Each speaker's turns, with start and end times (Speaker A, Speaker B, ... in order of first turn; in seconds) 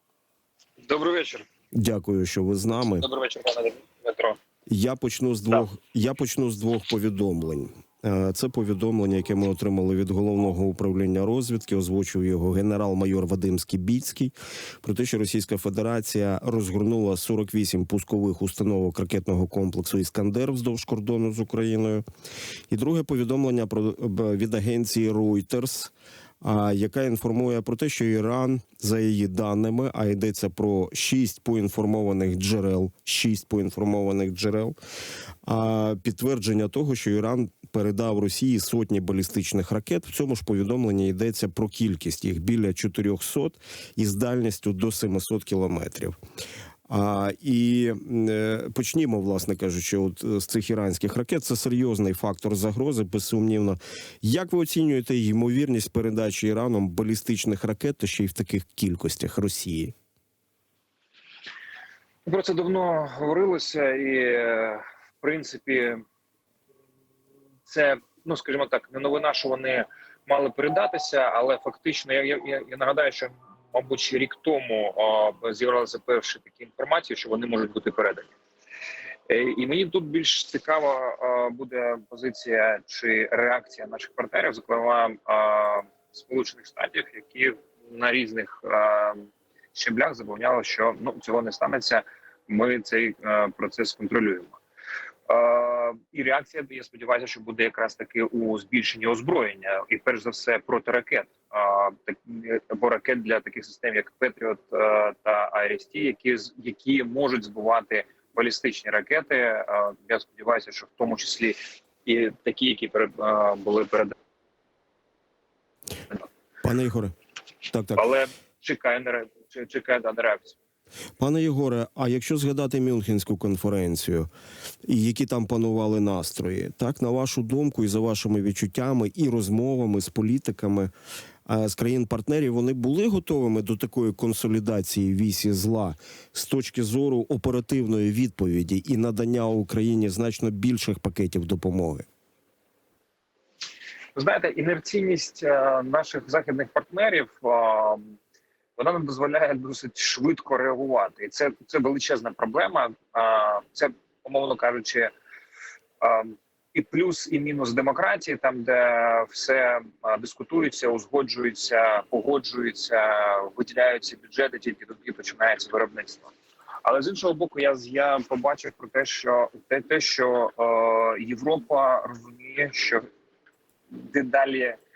Speaker A: 0.8-1.4, 3.0-4.4, 62.2-66.0, 67.7-78.3, 79.3-94.6, 95.3-114.1, 117.9-120.5, 144.1-148.1, 148.8-155.1, 156.0-166.3, 166.8-173.0, 173.9-174.8
Speaker B: 1.7-3.0, 4.7-22.0, 22.7-34.8, 35.4-46.1, 46.9-59.9, 116.6-117.1, 117.7-118.1, 121.2-124.3, 124.8-130.9, 131.5-142.1